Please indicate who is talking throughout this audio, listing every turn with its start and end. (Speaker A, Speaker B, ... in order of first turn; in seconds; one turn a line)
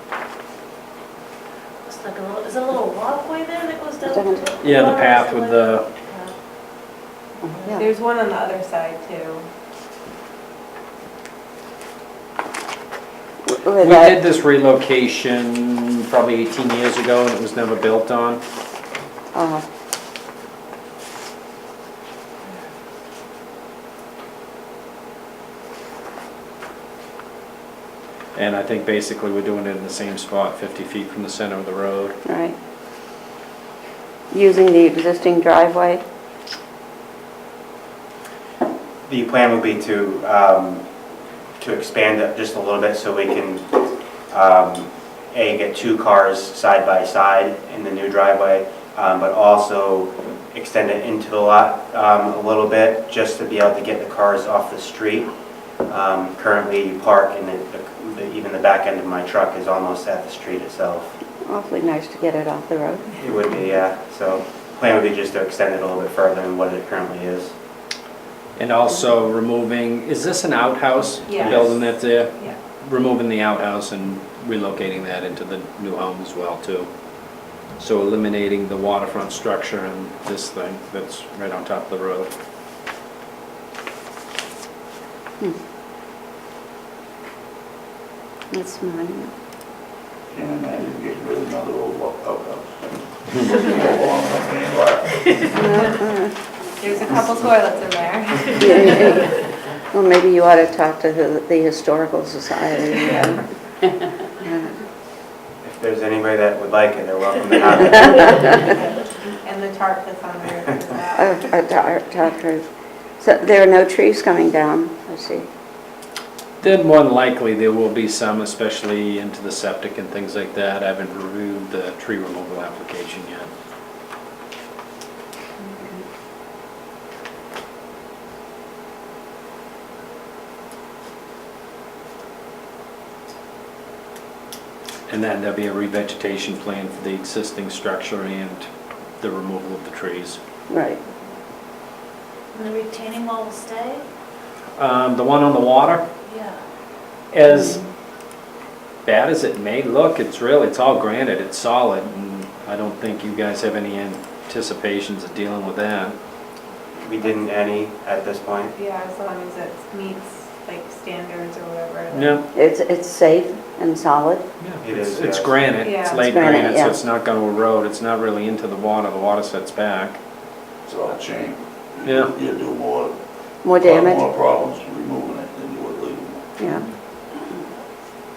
Speaker A: 1.8-6.3
Speaker B: 4.0-4.5
Speaker C: 4.6-5.9
Speaker D: 7.7-9.4
Speaker B: 13.4-14.2
Speaker C: 13.8-18.4
Speaker B: 19.3-19.6
Speaker C: 28.3-32.2
Speaker B: 32.3-32.5
Speaker B: 34.3-36.0
Speaker E: 39.1-40.8
Speaker E: 41.6-43.8
Speaker E: 44.3-55.3
Speaker E: 55.9-61.2
Speaker B: 61.5-63.1
Speaker E: 63.2-67.5
Speaker C: 68.6-76.9
Speaker D: 71.2-71.7
Speaker E: 71.4-71.8
Speaker C: 77.8-82.3
Speaker B: 88.5-89.3
Speaker F: 90.3-95.5
Speaker B: 95.5-96.3
Speaker D: 96.8-99.2
Speaker B: 98.6-99.3
Speaker B: 99.9-103.4
Speaker D: 103.1-103.3
Speaker B: 104.4-104.7
Speaker E: 105.6-108.6
Speaker D: 108.0-111.4
Speaker B: 111.2-112.7
Speaker B: 113.2-115.5
Speaker C: 116.6-123.5
Speaker C: 135.1-138.7
Speaker C: 139.2-140.4
Speaker B: 140.7-141.0
Speaker A: 142.5-144.0
Speaker C: 144.8-146.1
Speaker A: 146.3-146.6
Speaker C: 147.3-147.8
Speaker B: 147.5-147.8
Speaker C: 149.1-156.2
Speaker E: 157.0-158.8
Speaker D: 158.8-162.4
Speaker C: 162.1-162.4
Speaker B: 162.5-164.4
Speaker C: 164.6-170.2
Speaker E: 164.8-165.6
Speaker D: 165.8-166.2
Speaker B: 166.2-167.0
Speaker F: 170.9-173.1
Speaker C: 172.1-172.3
Speaker B: 173.6-174.2
Speaker F: 173.7-176.4
Speaker B: 176.6-176.8